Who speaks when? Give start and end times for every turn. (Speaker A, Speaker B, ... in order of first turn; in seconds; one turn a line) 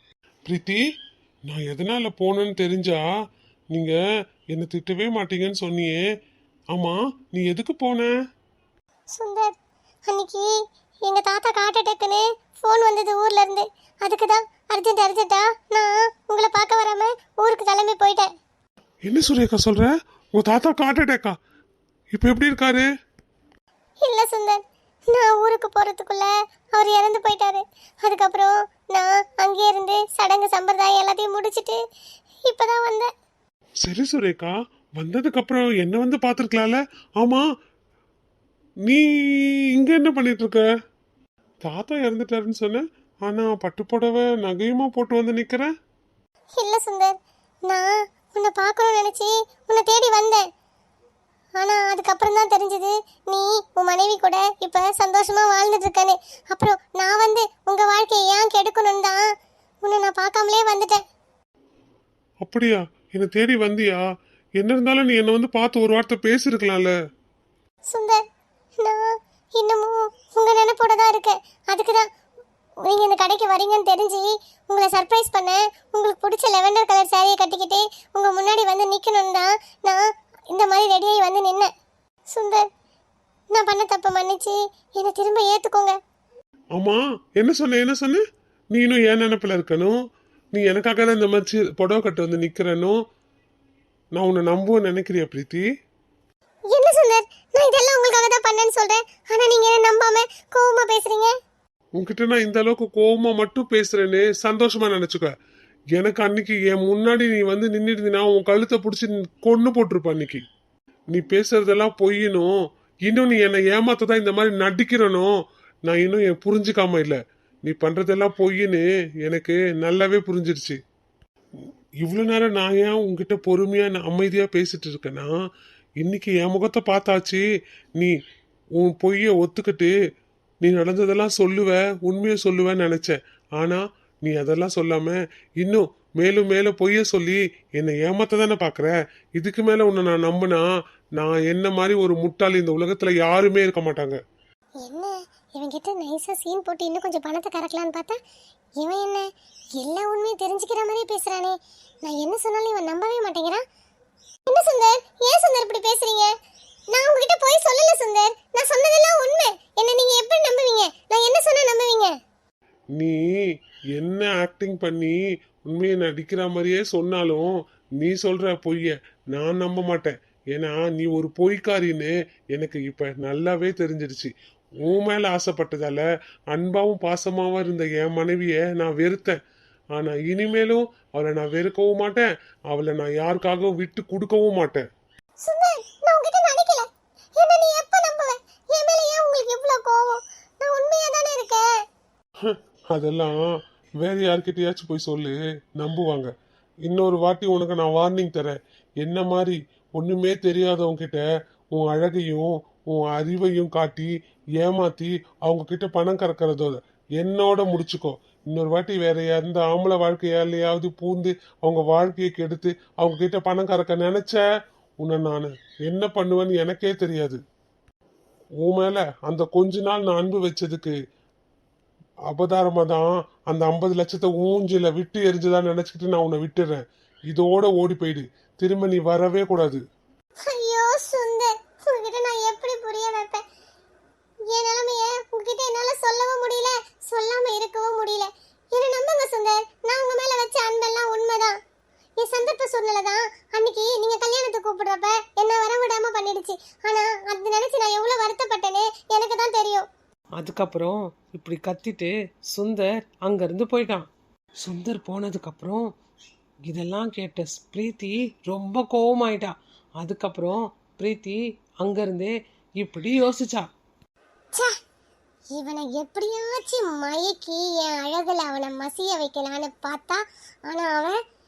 Speaker A: 0.5-0.8
Speaker A: 1.5-3.0
Speaker A: 4.5-6.0
Speaker A: 6.7-8.1
Speaker B: 9.1-9.5
Speaker B: 10.1-10.5
Speaker B: 11.1-18.3
Speaker A: 19.1-21.4
Speaker A: 22.1-22.9
Speaker B: 24.0-31.8
Speaker B: 32.5-33.1
Speaker A: 33.8-37.5
Speaker A: 38.9-40.6
Speaker A: 41.6-45.7
Speaker B: 46.6-47.1
Speaker B: 47.7-50.4
Speaker B: 51.6-59.2
Speaker B: 59.8-61.0
Speaker A: 62.4-64.0
Speaker A: 64.6-66.9
Speaker B: 67.9-68.2
Speaker B: 69.6-72.0
Speaker B: 72.8-80.0
Speaker B: 80.5-81.7
Speaker B: 82.3-82.6
Speaker B: 83.5-86.0
Speaker A: 86.8-90.0
Speaker A: 90.5-93.0
Speaker A: 94.2-95.7
Speaker B: 96.7-101.3
Speaker A: 102.0-105.3
Speaker A: 106.0-110.4
Speaker A: 111.1-112.5
Speaker A: 113.1-115.3
Speaker A: 115.9-120.8
Speaker A: 122.0-125.3
Speaker A: 126.0-127.4
Speaker A: 128.8-129.9
Speaker A: 130.6-140.6
Speaker A: 141.2-144.2
Speaker B: 144.8-148.2
Speaker B: 148.8-149.3
Speaker B: 149.8-153.6
Speaker B: 154.5-156.3
Speaker B: 156.9-162.1
Speaker A: 164.0-165.2
Speaker A: 165.7-174.3
Speaker A: 174.8-179.4
Speaker A: 179.9-184.8
Speaker B: 185.4-191.7
Speaker A: 192.4-193.3
Speaker A: 194.0-196.3
Speaker A: 196.9-214.4
Speaker A: 215.0-217.4
Speaker A: 218.6-221.0
Speaker A: 222.3-229.8
Speaker B: 230.5-233.4
Speaker B: 234.5-241.5
Speaker B: 242.2-249.8
Speaker C: 250.4-254.1
Speaker C: 254.6-255.9
Speaker C: 256.7-263.7
Speaker B: 265.6-271.2